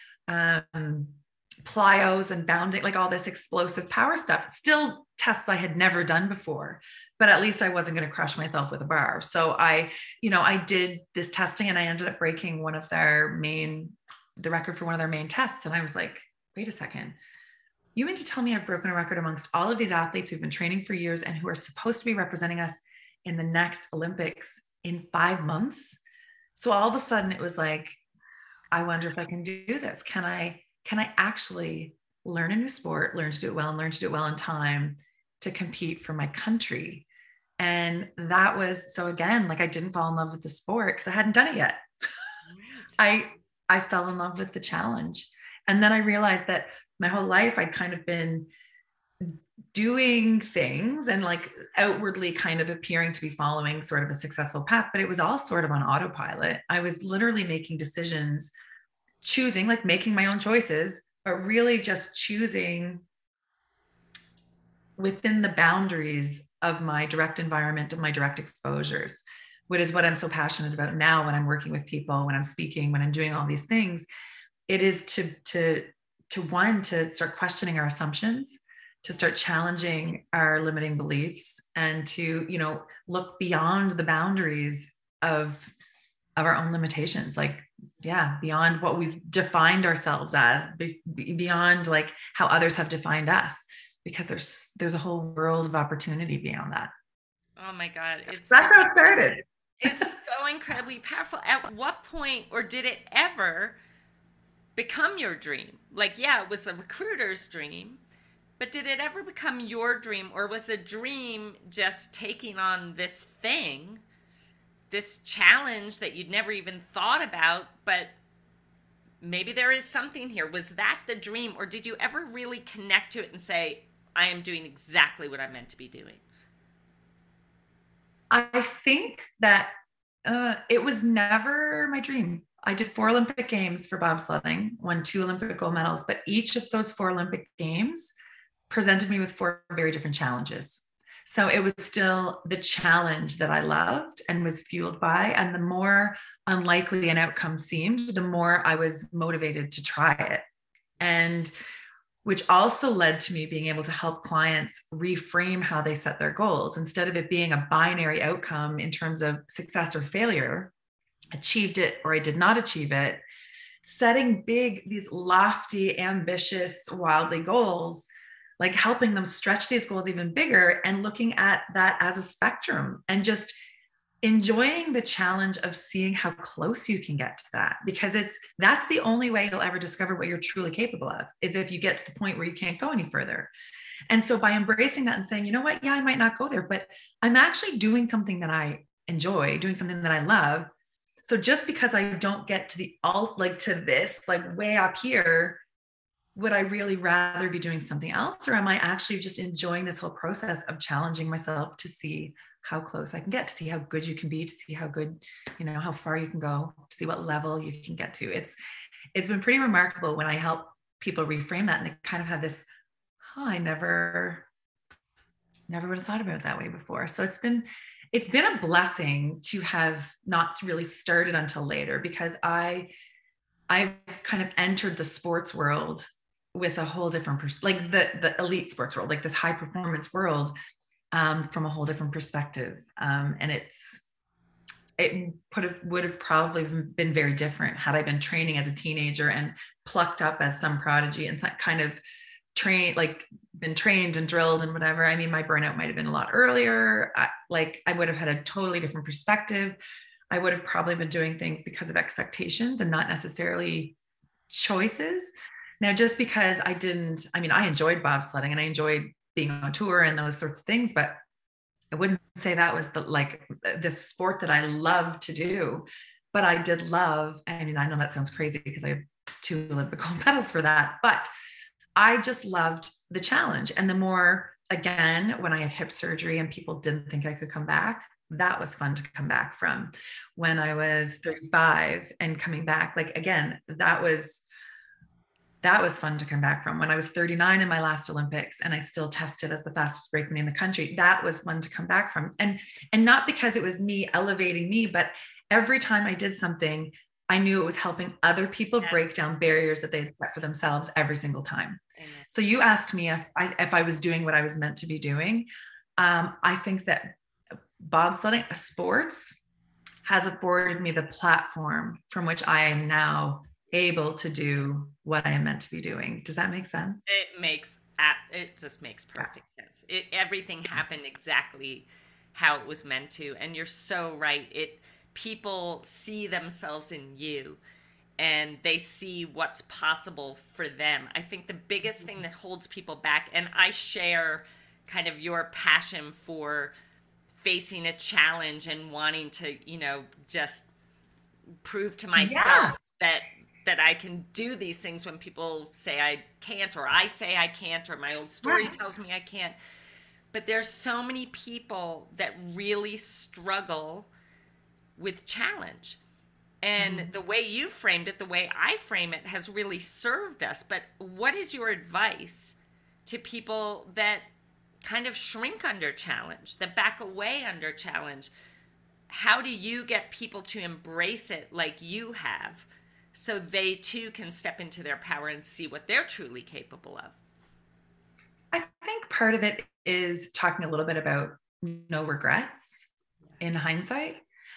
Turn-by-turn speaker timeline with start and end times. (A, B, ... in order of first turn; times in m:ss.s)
0:00.3-0:17.2 A
0:18.0-0:26.0 A
0:26.6-0:28.0 A
0:28.7-0:37.0 A
0:37.6-0:41.8 A
0:42.5-0:43.0 B
0:43.0-0:48.5 A
0:49.2-0:58.5 A
0:59.2-1:03.0 A
1:05.0-1:14.0 A
1:14.7-1:25.7 A
1:26.4-1:36.9 A
1:37.6-1:43.8 B
1:38.5-1:40.0 A
1:44.8-1:48.0 B
1:48.6-1:54.0 B
1:54.9-1:58.2 B
1:59.2-2:06.2 B
2:08.3-2:09.7 A
2:10.2-2:18.1 A
2:18.7-2:30.4 A
2:31.0-2:31.5 A
2:32.2-2:40.7 A
2:41.3-2:43.2 A
2:43.8-2:48.1 A
2:48.6-2:53.5 A
2:54.2-3:03.5 A
3:04.1-3:10.7 A
3:11.2-3:15.6 A
3:16.3-3:28.6 A
3:29.1-3:32.7 A
3:33.2-3:34.4 A
3:35.7-3:42.9 A
3:43.7-3:50.5 A
3:51.1-3:54.0 A
3:55.0-4:02.0 A
4:02.5-4:09.8 A
4:10.3-4:14.0 A
4:14.5-4:21.2 A
4:21.9-4:31.3 A
4:32.0-4:44.4 A
4:45.6-5:07.2 A
4:58.8-4:59.1 B
5:02.0-5:02.3 B
5:07.8-5:09.3 A
5:10.0-5:17.0 A
5:17.1-5:27.6 B
5:28.2-5:36.7 B
5:37.4-5:40.7 B
5:41.6-5:49.6 B
5:42.2-5:42.8 A
5:48.4-5:48.7 A
5:50.3-5:54.1 B
5:55.0-5:56.0 B
5:56.6-6:04.3 B
5:56.8-5:57.1 A
6:04.8-6:08.3 B
6:09.1-6:17.2 B
6:18.5-6:22.9 A
6:23.4-6:24.2 A